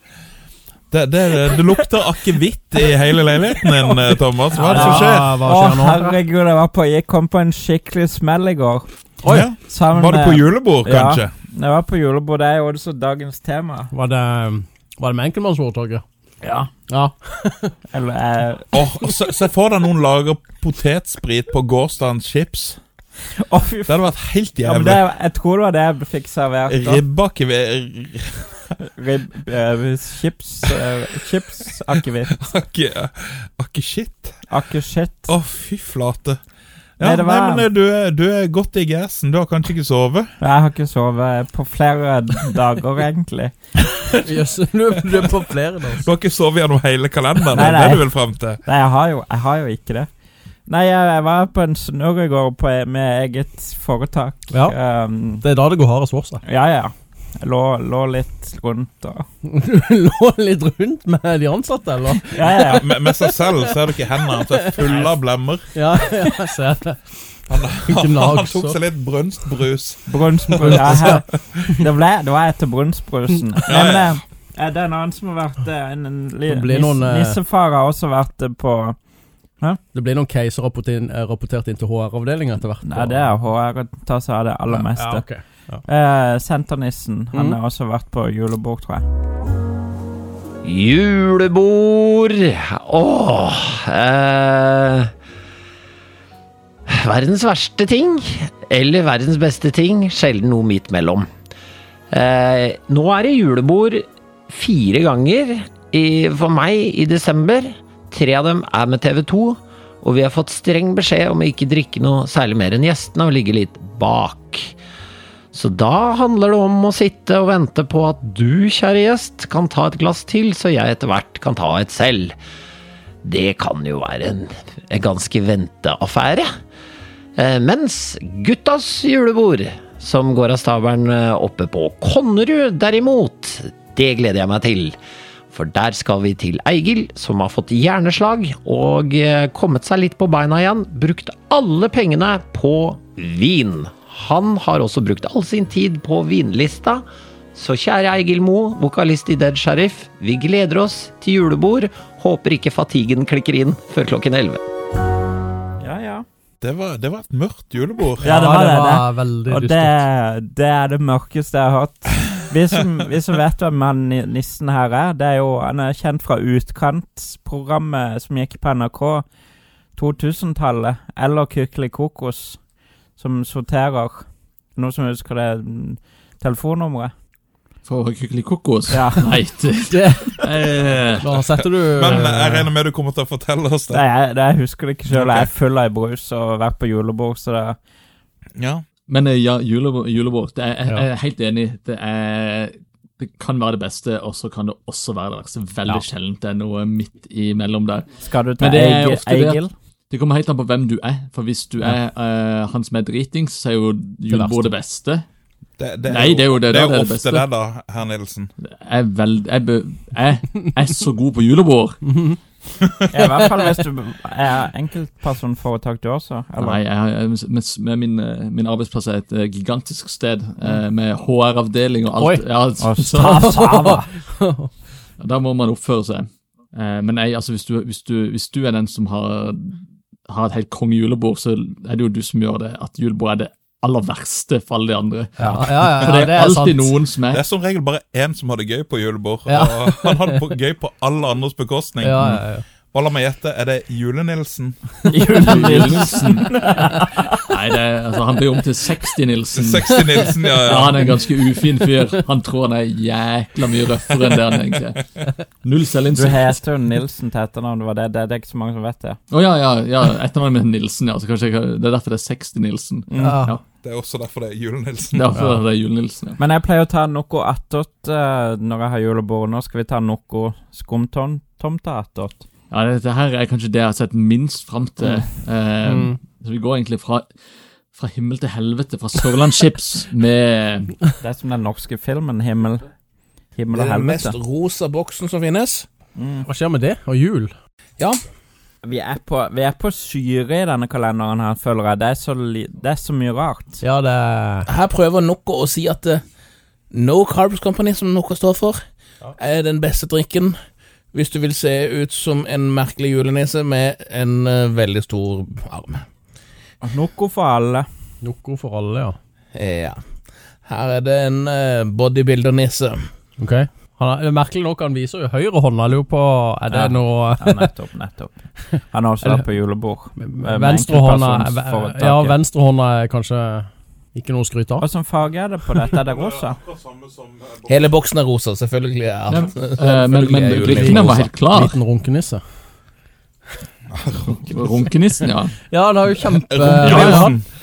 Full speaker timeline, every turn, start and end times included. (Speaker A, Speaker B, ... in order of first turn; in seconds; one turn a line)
Speaker A: 0.9-5.4
Speaker B: 4.5-8.9
Speaker C: 4.7-6.2
Speaker C: 9.2-9.5
Speaker A: 9.2-11.3
Speaker B: 9.6-13.9
Speaker C: 13.9-16.0
Speaker B: 16.4-16.7
Speaker C: 16.9-17.8
Speaker B: 17.9-18.7
Speaker A: 18.7-22.8
Speaker B: 23.4-24.0
Speaker A: 23.9-25.0
Speaker B: 24.6-27.1
Speaker A: 26.7-28.6
Speaker B: 29.0-32.4
Speaker A: 32.3-34.4
Speaker B: 34.5-35.3
Speaker A: 35.3-36.4
Speaker A: 37.0-40.3
Speaker B: 37.0-37.7
Speaker B: 40.4-43.5
Speaker C: 44.1-46.1
Speaker A: 45.9-48.6
Speaker B: 47.5-48.1
Speaker B: 48.6-50.1
Speaker B: 50.7-55.5
Speaker C: 54.5-54.8
Speaker C: 55.4-56.4
Speaker B: 56.5-59.2
Speaker C: 59.5-64.9
Speaker B: 62.3-62.8
Speaker A: 62.7-65.7
Speaker C: 65.8-67.2
Speaker A: 67.5-71.6
Speaker C: 67.8-68.8
Speaker B: 70.1-79.0
Speaker C: 70.6-71.9
Speaker A: 73.7-74.2
Speaker C: 76.5-77.4
Speaker C: 79.9-83.4
Speaker B: 82.8-85.3
Speaker C: 84.7-85.8
Speaker B: 85.9-89.1
Speaker C: 87.3-87.6
Speaker D: 90.6-95.1
Speaker D: 96.9-101.3
Speaker D: 102.1-114.8
Speaker D: 115.5-122.3
Speaker D: 123.2-126.5
Speaker D: 127.4-135.0
Speaker D: 135.5-154.6
Speaker B: 155.8-156.2
Speaker A: 156.6-158.3
Speaker C: 158.2-160.1
Speaker B: 158.2-169.3
Speaker B: 169.9-172.6
Speaker B: 173.2-177.1
Speaker E: 177.9-182.3
Speaker B: 178.9-179.3
Speaker C: 179.9-180.5
Speaker C: 181.2-182.7
Speaker A: 181.9-184.0
Speaker B: 183.9-187.8
Speaker A: 185.1-185.5
Speaker A: 188.6-188.8
Speaker E: 189.1-205.3
Speaker B: 198.2-199.7
Speaker C: 204.3-204.7
Speaker A: 205.8-208.5
Speaker E: 206.1-207.5
Speaker E: 208.6-212.0
Speaker C: 212.1-212.4
Speaker B: 213.1-216.8
Speaker E: 216.6-223.5
Speaker C: 222.2-222.4
Speaker B: 222.8-224.1
Speaker C: 223.3-224.7
Speaker E: 225.2-237.4
Speaker C: 235.4-237.0
Speaker A: 237.3-242.2
Speaker C: 239.5-240.5
Speaker C: 242.0-242.7
Speaker A: 242.9-244.9
Speaker B: 245.1-247.4
Speaker E: 245.4-246.5
Speaker E: 247.5-255.1
Speaker A: 249.5-251.1
Speaker E: 255.6-256.6
Speaker B: 256.1-259.2
Speaker E: 259.3-263.6
Speaker B: 263.1-263.4
Speaker C: 263.2-263.6
Speaker A: 263.8-265.3
Speaker E: 265.1-266.4
Speaker C: 265.3-265.6
Speaker B: 266.4-272.5
Speaker E: 272.7-277.3
Speaker C: 275.9-276.2
Speaker E: 277.9-280.9
Speaker B: 281.2-282.9
Speaker B: 283.6-284.4
Speaker F: 283.7-285.9
Speaker B: 286.2-286.5
Speaker C: 286.5-287.5
Speaker B: 288.8-293.8
Speaker C: 293.8-294.7
Speaker F: 294.7-296.2
Speaker F: 296.9-298.8
Speaker F: 299.4-300.6
Speaker F: 301.1-306.0
Speaker B: 306.8-307.9
Speaker C: 308.2-309.2
Speaker F: 309.6-310.0
Speaker F: 310.7-313.0
Speaker C: 313.4-317.7
Speaker B: 316.7-322.4
Speaker C: 319.2-319.5
Speaker C: 320.2-324.9
Speaker B: 324.8-326.6
Speaker A: 326.1-327.9
Speaker F: 327.7-331.3
Speaker E: 329.3-331.8
Speaker C: 330.7-332.4
Speaker A: 333.9-334.8
Speaker E: 334.3-335.5
Speaker C: 335.7-337.4
Speaker A: 336.5-337.4
Speaker E: 336.8-337.3